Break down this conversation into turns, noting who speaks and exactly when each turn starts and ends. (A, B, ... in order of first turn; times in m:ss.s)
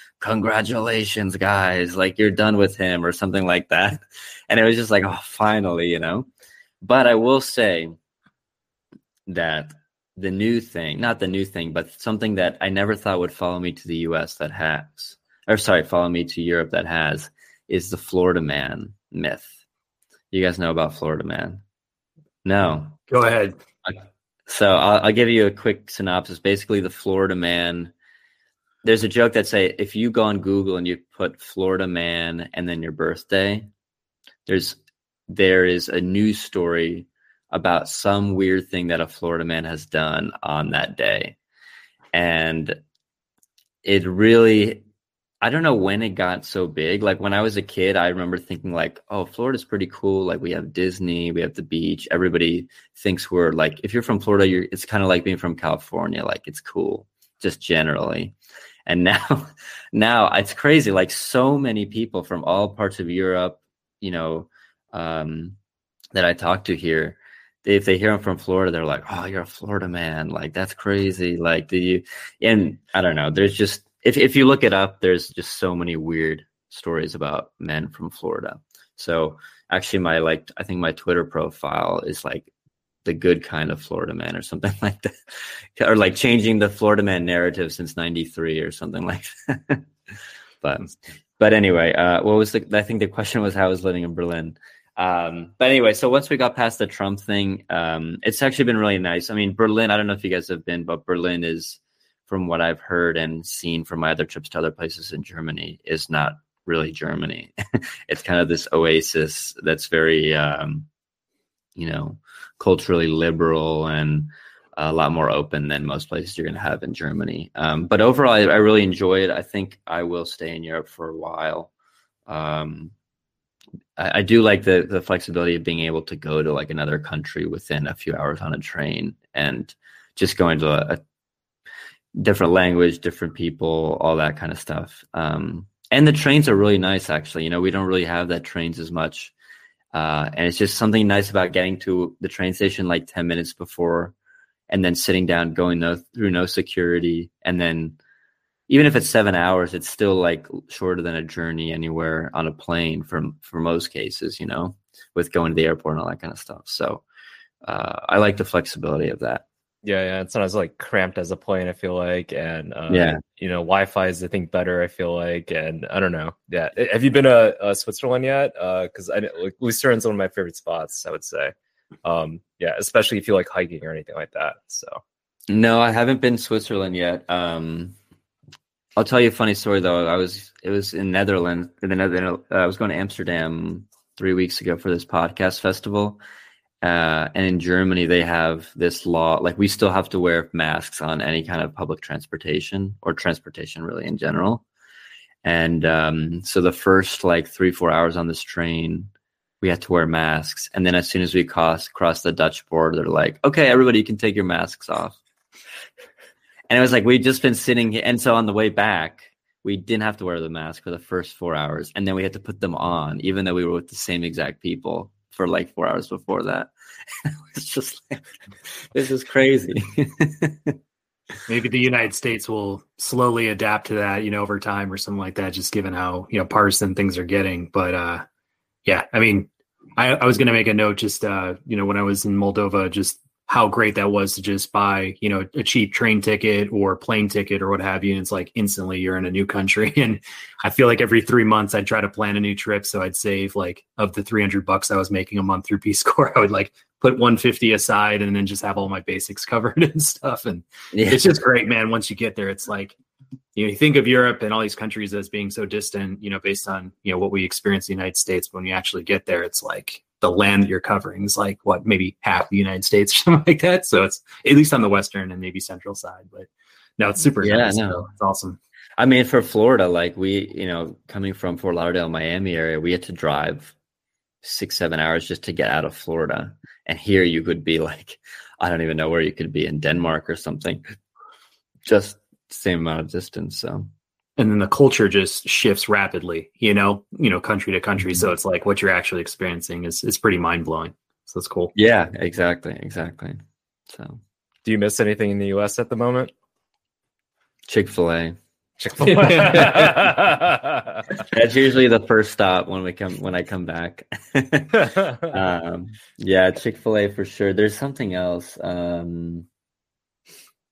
0:00.2-0:06.3 A
0:06.8-0:08.0 A
0:09.3-0:19.5 A
0:20.3-0:21.6 A
0:22.4-0:23.0 A
0:23.1-0:23.6 B
0:23.8-0:27.9 A
0:28.8-0:33.7 A
0:34.5-0:41.4 A
0:42.1-0:42.8 A
0:43.8-0:44.8 A
0:45.4-0:58.4 A
0:58.9-1:05.6 A
1:06.2-1:22.5 A
1:23.0-1:29.9 A
1:30.6-1:50.9 A
1:51.8-2:01.7 A
2:02.3-2:02.9 A
2:04.0-2:11.0 A
2:12.2-2:19.3 A
2:19.9-2:24.2 A
2:24.7-2:28.0 A
2:28.7-2:37.0 A
2:37.6-2:39.4 A
2:39.8-2:55.0 C
2:42.9-2:43.2 A
2:55.5-2:58.0 A
2:59.0-3:06.2 A
3:06.8-3:14.6 A
3:15.4-3:25.2 A
3:26.7-3:36.7 A
3:37.2-3:38.2 A
3:38.9-3:40.8 A
3:41.5-3:48.3 B
3:48.9-4:13.0 B
4:10.9-4:11.3 A
4:13.6-4:28.6 B
4:27.4-4:28.1 A
4:29.0-4:33.7 A
4:34.4-4:40.8 A
4:41.9-4:43.9 A
4:44.4-4:51.7 B
4:51.8-4:54.2 A
4:54.6-4:56.3 C
4:57.7-4:58.4 A
4:58.8-5:01.0 C
4:59.0-4:59.9 B
5:01.2-5:09.5 A